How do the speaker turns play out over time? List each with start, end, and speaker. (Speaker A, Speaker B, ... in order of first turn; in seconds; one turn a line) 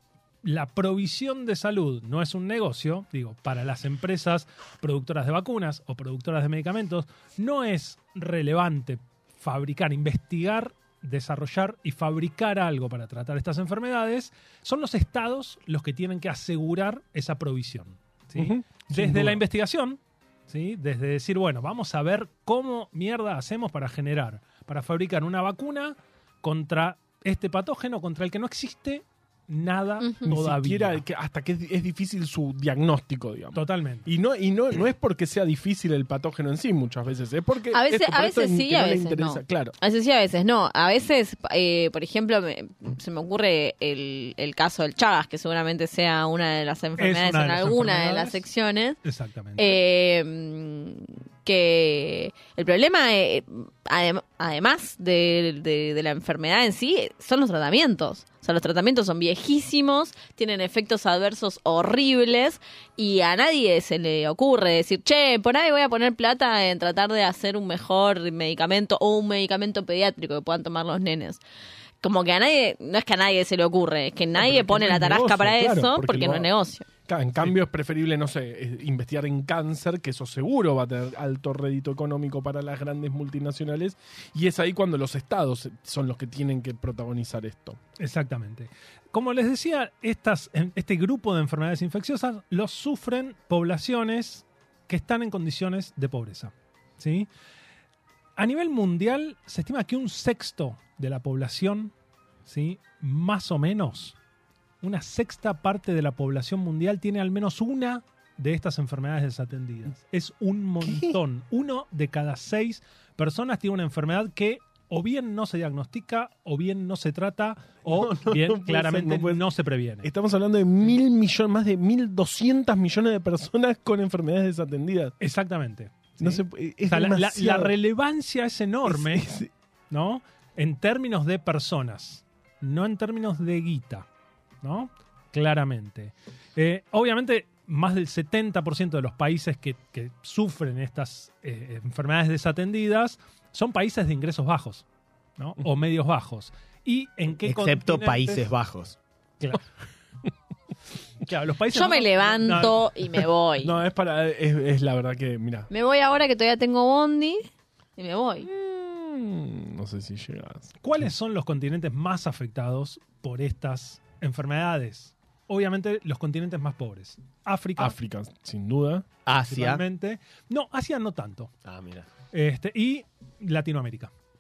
Speaker A: 0.4-31.0
Speaker B: 18.4-19.4
Speaker C: 30.0-30.3
Speaker B: 30.3-39.7
Speaker A: 33.5-34.1
Speaker C: 37.7-49.0
Speaker A: 47.0-48.4
Speaker A: 49.0-49.8
Speaker C: 49.6-71.4
Speaker C: 72.0-76.9
Speaker B: 74.4-76.5
Speaker B: 77.1-87.8
Speaker A: 88.0-97.3
Speaker A: 98.4-101.9
Speaker A: 102.5-104.2
Speaker A: 104.8-120.1
Speaker B: 110.8-111.2
Speaker B: 117.8-119.4
Speaker B: 120.0-125.2
Speaker A: 125.2-129.3
Speaker B: 126.2-127.7
Speaker B: 128.8-129.5
Speaker A: 129.9-134.1
Speaker A: 134.6-144.8
Speaker A: 145.4-148.5
Speaker D: 147.4-149.0
Speaker A: 149.4-149.7
Speaker A: 151.2-152.8
Speaker C: 151.7-153.7
Speaker B: 153.6-155.7
Speaker C: 155.7-158.5
Speaker B: 158.4-160.8
Speaker A: 160.8-168.0
Speaker B: 167.8-169.1
Speaker D: 169.3-169.8
Speaker A: 169.4-171.5
Speaker D: 171.7-172.1
Speaker A: 172.3-174.1